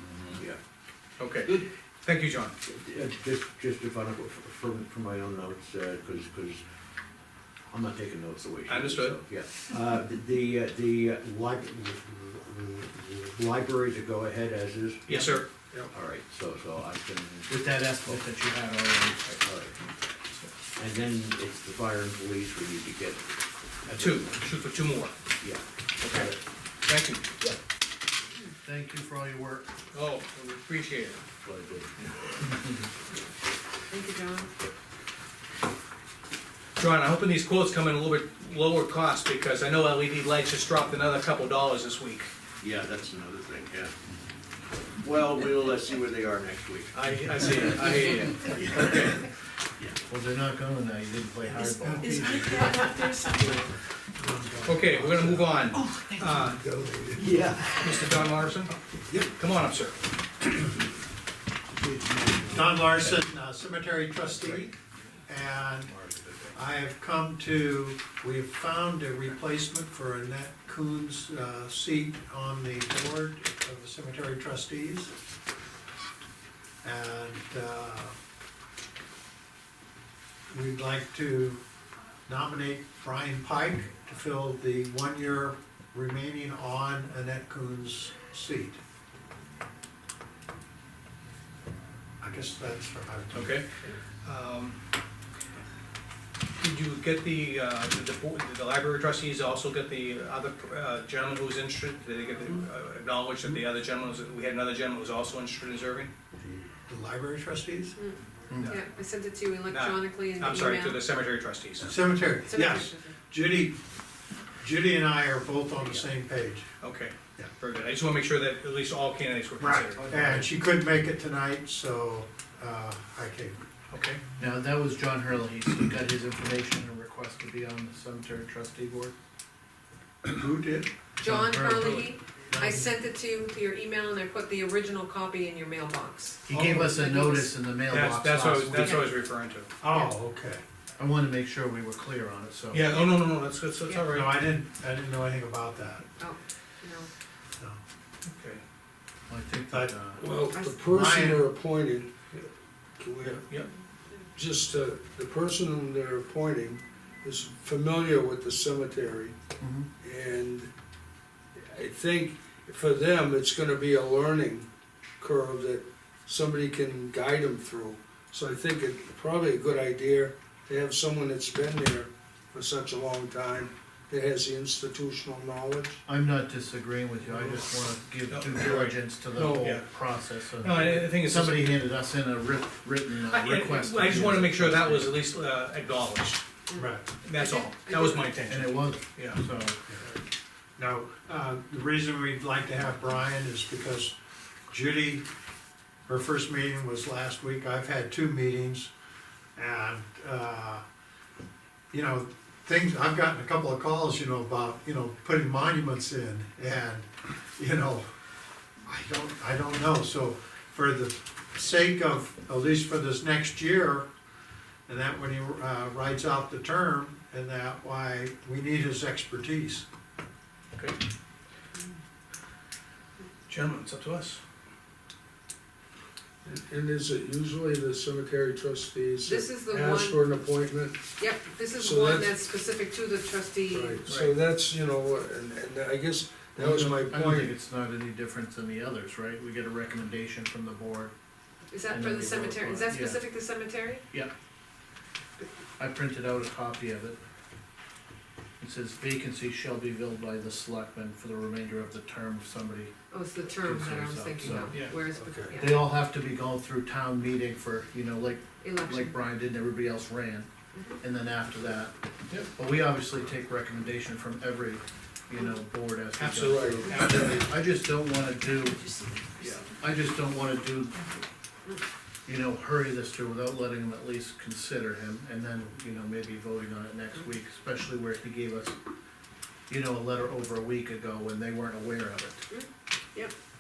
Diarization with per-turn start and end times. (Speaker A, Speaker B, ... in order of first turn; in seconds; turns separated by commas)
Speaker A: 0.1-0.6, Speaker B: 1.2-2.5, Speaker A: 2.6-6.6, Speaker A: 7.7-18.2, Speaker B: 8.7-9.2, Speaker B: 15.1-15.5, Speaker C: 17.5-19.4, Speaker A: 19.3-19.8, Speaker A: 20.8-23.3, Speaker A: 23.8-24.3, Speaker B: 23.9-25.1, Speaker A: 25.4-26.4, Speaker B: 26.0-27.2, Speaker C: 28.6-29.7, Speaker B: 29.9-31.2, Speaker A: 31.4-32.5, Speaker D: 33.9-34.5, Speaker B: 36.8-42.3, Speaker A: 42.6-44.0, Speaker A: 45.0-50.0, Speaker B: 46.9-49.1, Speaker C: 50.1-53.1, Speaker D: 52.5-53.6, Speaker E: 54.2-55.3, Speaker B: 54.6-56.6, Speaker F: 56.3-57.2, Speaker A: 57.1-58.4, Speaker B: 57.8-58.7, Speaker B: 59.4-60.0, Speaker A: 61.8-63.2, Speaker E: 62.5-64.8, Speaker A: 64.3-64.7, Speaker E: 65.3-65.9, Speaker A: 65.8-66.5, Speaker E: 66.5-75.1, Speaker E: 76.8-78.2, Speaker E: 80.5-81.6, Speaker E: 82.3-88.8, Speaker E: 92.2-93.6, Speaker B: 93.3-93.7, Speaker B: 94.2-94.8, Speaker B: 96.6-106.1, Speaker E: 106.4-108.0, Speaker D: 108.0-111.0, Speaker C: 108.5-108.8, Speaker B: 109.7-111.9, Speaker E: 111.8-113.8, Speaker D: 112.5-113.2, Speaker E: 114.6-116.7, Speaker B: 116.8-120.4, Speaker E: 119.6-123.6, Speaker C: 120.1-120.5, Speaker B: 123.9-124.2, Speaker C: 124.4-129.1, Speaker E: 130.2-130.9, Speaker D: 131.2-137.6, Speaker C: 131.2-132.1, Speaker E: 132.5-132.9, Speaker C: 136.5-139.0, Speaker B: 136.5-136.9, Speaker B: 137.9-139.7, Speaker D: 138.7-139.1, Speaker E: 139.8-140.6, Speaker C: 141.0-142.9, Speaker B: 142.7-144.4, Speaker E: 144.1-146.1, Speaker D: 146.2-147.1, Speaker B: 148.2-148.6, Speaker C: 149.3-150.2, Speaker E: 149.7-150.0, Speaker F: 150.2-152.5, Speaker D: 150.5-150.8, Speaker E: 150.9-151.4, Speaker F: 153.0-153.4, Speaker F: 154.3-159.3, Speaker C: 159.6-159.9, Speaker F: 160.0-160.7, Speaker F: 161.6-164.7, Speaker F: 165.2-176.0, Speaker C: 176.1-185.2, Speaker F: 177.3-177.6, Speaker B: 178.3-179.9, Speaker B: 180.6-181.8, Speaker B: 183.3-186.4, Speaker D: 186.7-188.4, Speaker E: 186.8-187.1, Speaker B: 187.2-189.4, Speaker C: 188.5-189.9, Speaker E: 190.8-194.2, Speaker E: 194.7-195.3, Speaker E: 196.1-198.9, Speaker E: 199.6-200.8, Speaker E: 201.9-208.1, Speaker E: 208.9-214.1, Speaker E: 214.9-219.8, Speaker B: 223.5-224.4, Speaker F: 226.4-231.1, Speaker D: 229.2-230.2, Speaker D: 231.2-234.0, Speaker F: 231.8-232.3, Speaker F: 233.7-237.5, Speaker B: 234.1-234.3, Speaker C: 236.6-241.1, Speaker D: 241.7-244.0, Speaker C: 241.9-243.3, Speaker C: 245.8-247.2, Speaker C: 248.6-252.9, Speaker D: 253.1-255.9, Speaker C: 253.5-260.5, Speaker F: 255.2-255.6, Speaker D: 258.6-259.2, Speaker D: 260.7-261.0, Speaker C: 261.0-269.0, Speaker B: 266.2-267.5, Speaker F: 266.4-266.9, Speaker C: 269.7-271.2, Speaker C: 272.3-278.8, Speaker C: 279.7-282.5, Speaker D: 282.5-283.3